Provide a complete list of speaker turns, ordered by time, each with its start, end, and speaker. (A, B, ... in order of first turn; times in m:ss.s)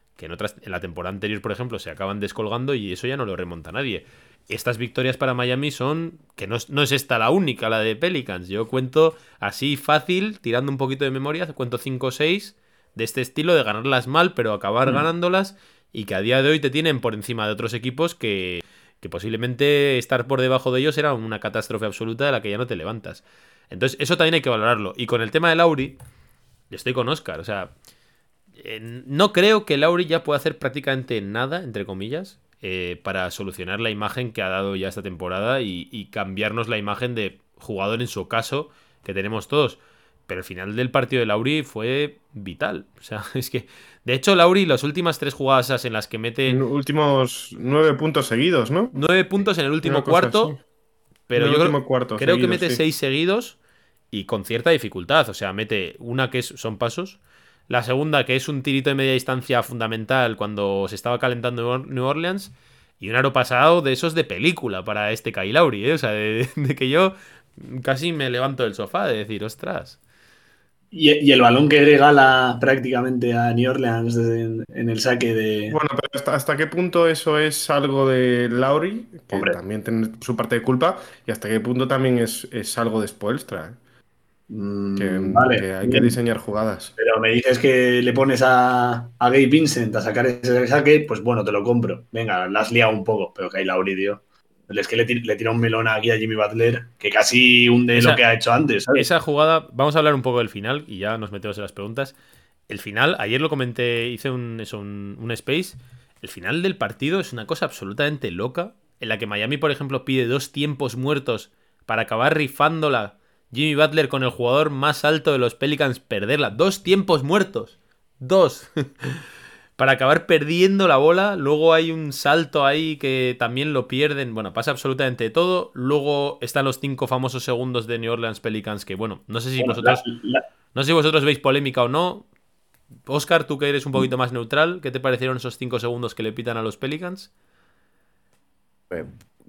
0:00.2-0:26.0 A
0:26.7-0:27.7 A
0:28.6-0:46.6 A
0:46.5-0:49.0 B
0:48.9-0:50.6 A
0:49.8-0:50.6 B
0:51.3-0:53.6 A
0:51.3-0:52.8 B
0:54.1-1:10.0 A
1:10.9-1:15.8 C
1:15.7-1:23.8 B
1:19.3-1:19.6 C
1:24.5-1:26.2 C
1:25.0-1:26.9 B
1:27.0-1:39.1 C
1:37.9-1:38.2 A
1:39.0-1:42.1 A
1:42.7-1:59.2 A
1:59.8-2:10.0 A
2:09.6-2:10.4 C
2:10.7-2:12.2 A
2:13.1-2:17.3 A